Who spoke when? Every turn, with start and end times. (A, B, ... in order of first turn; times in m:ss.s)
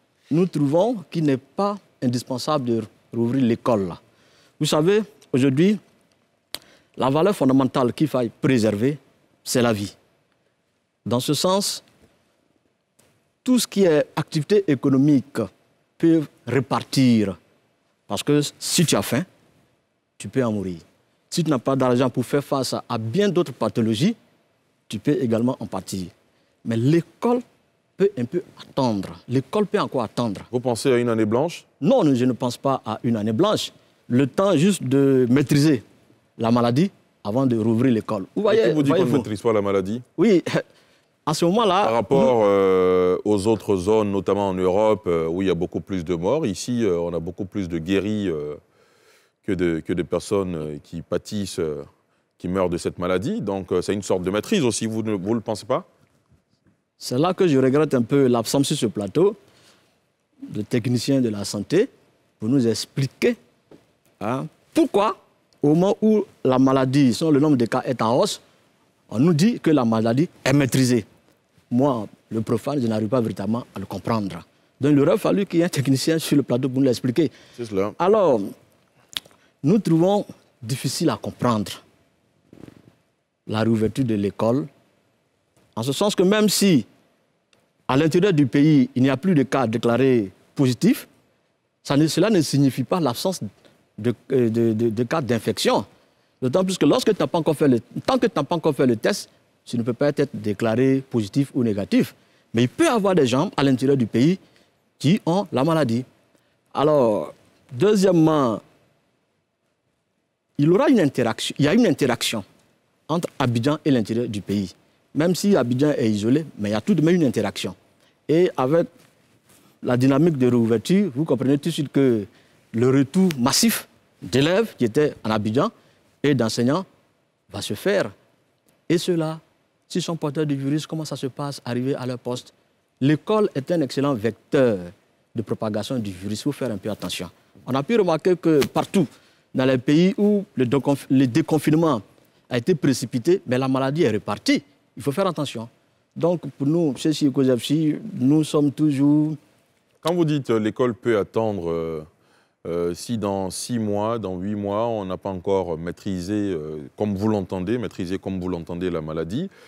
0:00.3-0:04.0 A
0:04.6-0:05.8 A
0:07.0-0:09.9 A
0:11.0-0:11.8 A
0:13.4-0:17.4 A
0:18.1-0:19.2 A
0:20.2-0:24.2 A
0:24.9-0:26.1 A
0:26.6-0:27.4 A
0:28.0-0:30.5 A
0:30.5-0:31.6 B
0:31.8-0:35.8 A
0:36.4-0:39.3 A
0:38.5-0:40.0 B
0:40.2-0:40.6 A
0:41.2-0:42.3 A
0:41.8-0:48.6 B
0:49.4-0:51.9 B
0:52.4-0:55.8 B
0:57.0-0:59.4 A
1:00.4-1:03.4 A
1:04.2-1:08.4 A
1:09.1-1:11.0 A
1:11.7-1:17.3 A
1:17.6-1:18.0 B
1:18.0-1:18.5 A
1:19.6-1:21.8 A
1:23.5-1:24.7 A
1:25.8-1:26.9 A
1:27.9-1:31.1 A
1:31.8-1:33.4 A
1:34.0-1:35.9 A
1:36.4-1:44.4 A
1:45.0-1:46.0 A
1:46.7-1:48.6 A
1:50.6-1:52.4 A
1:53.1-1:57.7 A
1:58.3-1:58.9 A
1:59.8-2:05.7 A
2:06.2-2:06.8 A
2:07.5-2:08.1 A
2:08.9-2:29.4 A
2:30.0-2:32.0 B
2:32.6-2:39.5 B